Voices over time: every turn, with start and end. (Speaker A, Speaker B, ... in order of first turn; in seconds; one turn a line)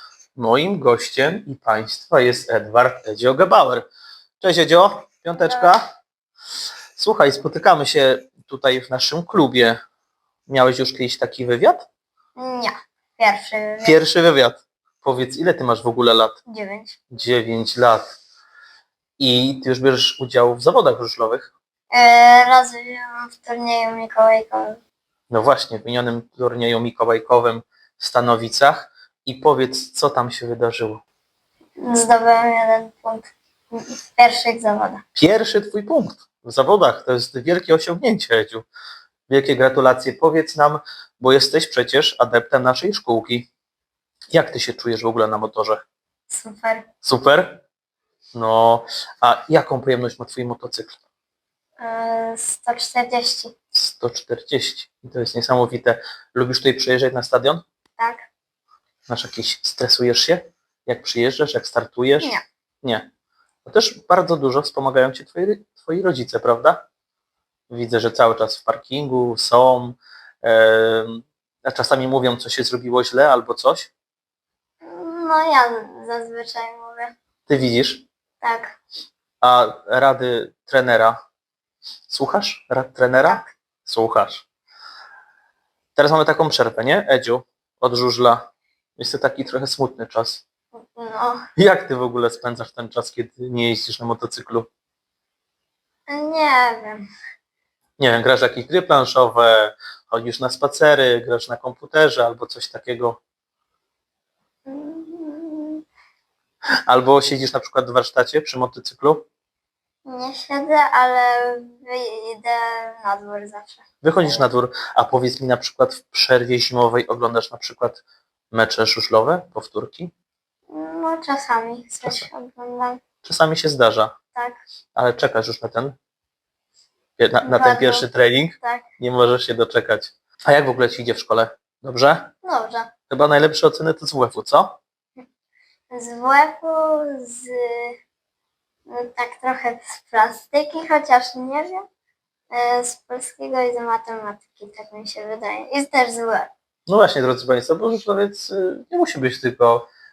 Speaker A: 0.4-3.9
Speaker A: 4.4-5.9
Speaker B: 5.4-5.7
Speaker A: 7.0-9.8
Speaker A: 10.5-11.9
Speaker B: 12.4-14.0
Speaker A: 13.8-16.4
Speaker B: 16.5-17.0
Speaker A: 17.1-18.2
Speaker A: 19.2-21.5
Speaker B: 21.9-24.8
Speaker A: 25.3-31.0
Speaker B: 31.8-35.0
Speaker A: 35.1-38.7
Speaker A: 39.3-43.5
Speaker A: 44.3-45.8
Speaker B: 46.3-46.9
Speaker A: 47.0-47.6
Speaker A: 48.3-51.0
Speaker B: 51.8-53.5
Speaker A: 53.7-57.6
Speaker B: 58.0-58.2
Speaker A: 59.1-63.1
Speaker A: 63.6-66.8
Speaker A: 67.7-73.9
Speaker B: 74.8-77.1
Speaker A: 77.5-78.0
Speaker B: 78.4-78.8
Speaker A: 79.4-81.2
Speaker A: 82.1-84.5
Speaker B: 83.2-83.5
Speaker A: 86.0-90.4
Speaker B: 90.8-91.4
Speaker A: 91.6-94.7
Speaker B: 96.1-97.1
Speaker A: 98.0-103.2
Speaker B: 104.7-105.8
Speaker A: 106.9-109.2
Speaker B: 110.0-114.4
Speaker A: 114.0-118.0
Speaker A: 118.5-120.1
Speaker B: 120.7-123.0
Speaker A: 123.2-124.1
Speaker B: 124.3-124.6
Speaker A: 125.0-126.0
Speaker A: 127.2-132.3
Speaker B: 127.4-128.1
Speaker B: 132.4-132.9
Speaker A: 133.1-134.8
Speaker B: 135.9-138.0
Speaker B: 138.9-141.9
Speaker B: 142.5-146.5
Speaker A: 146.9-149.9